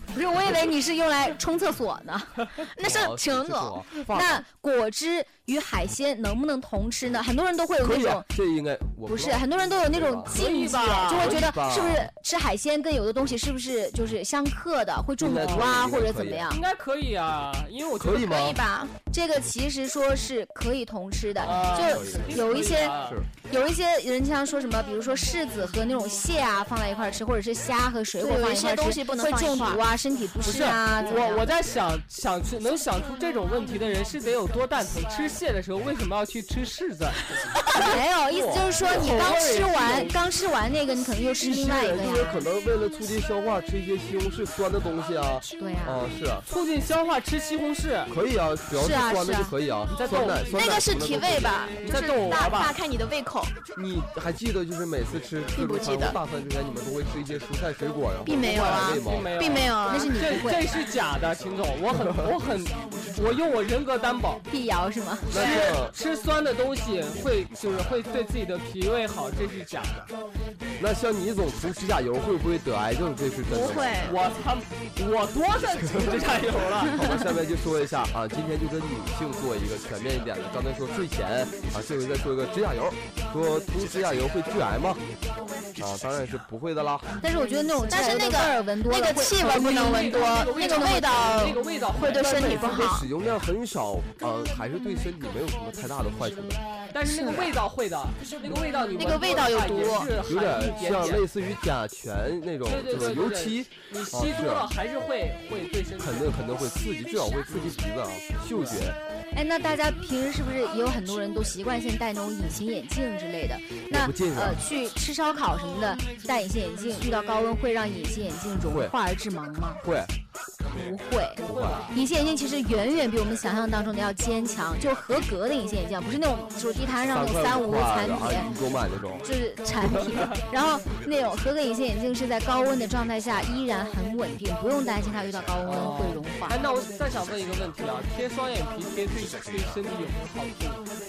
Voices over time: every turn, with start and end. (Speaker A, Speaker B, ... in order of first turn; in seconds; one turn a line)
Speaker A: 0.1-2.4
Speaker B: 2.6-3.8
Speaker C: 2.8-4.4
Speaker A: 4.0-8.3
Speaker C: 7.8-10.4
Speaker A: 9.1-16.6
Speaker D: 10.2-11.4
Speaker C: 11.1-12.1
Speaker C: 15.2-16.5
Speaker D: 15.3-15.7
Speaker D: 16.5-18.2
Speaker C: 18.0-18.6
Speaker B: 18.1-18.9
Speaker A: 19.1-22.9
Speaker C: 21.4-23.3
Speaker D: 21.4-23.2
Speaker A: 23.5-31.6
Speaker B: 28.2-29.8
Speaker D: 30.4-37.5
Speaker A: 37.8-42.5
Speaker C: 38.3-39.1
Speaker D: 38.8-40.1
Speaker C: 41.4-46.5
Speaker A: 45.6-46.0
Speaker D: 46.5-48.1
Speaker C: 48.1-51.6
Speaker A: 48.7-49.5
Speaker D: 49.9-50.5
Speaker B: 50.5-53.5
Speaker D: 51.8-52.8
Speaker C: 53.7-59.4
Speaker B: 55.5-56.2
Speaker B: 58.2-60.4
Speaker D: 58.3-64.4
Speaker A: 59.8-60.6
Speaker A: 64.5-65.7
Speaker C: 65.3-65.9
Speaker D: 65.3-70.1
Speaker C: 70.8-74.0
Speaker B: 73.5-74.2
Speaker D: 74.0-77.0
Speaker C: 76.8-85.0
Speaker C: 85.8-87.2
Speaker A: 87.2-91.0
Speaker B: 87.9-93.1
Speaker D: 89.5-92.8
Speaker C: 92.1-96.6
Speaker D: 96.9-101.2
Speaker B: 97.0-97.5
Speaker B: 99.0-100.1
Speaker C: 100.2-104.7
Speaker D: 102.7-106.5
Speaker C: 106.0-109.0
Speaker A: 109.3-119.8
Speaker C: 113.9-114.6
Speaker C: 118.7-118.9
Speaker C: 119.8-120.1
Speaker A: 120.7-128.5
Speaker C: 121.4-121.9
Speaker D: 121.5-121.8
Speaker C: 127.0-129.2
Speaker A: 129.2-136.6
Speaker D: 135.6-140.8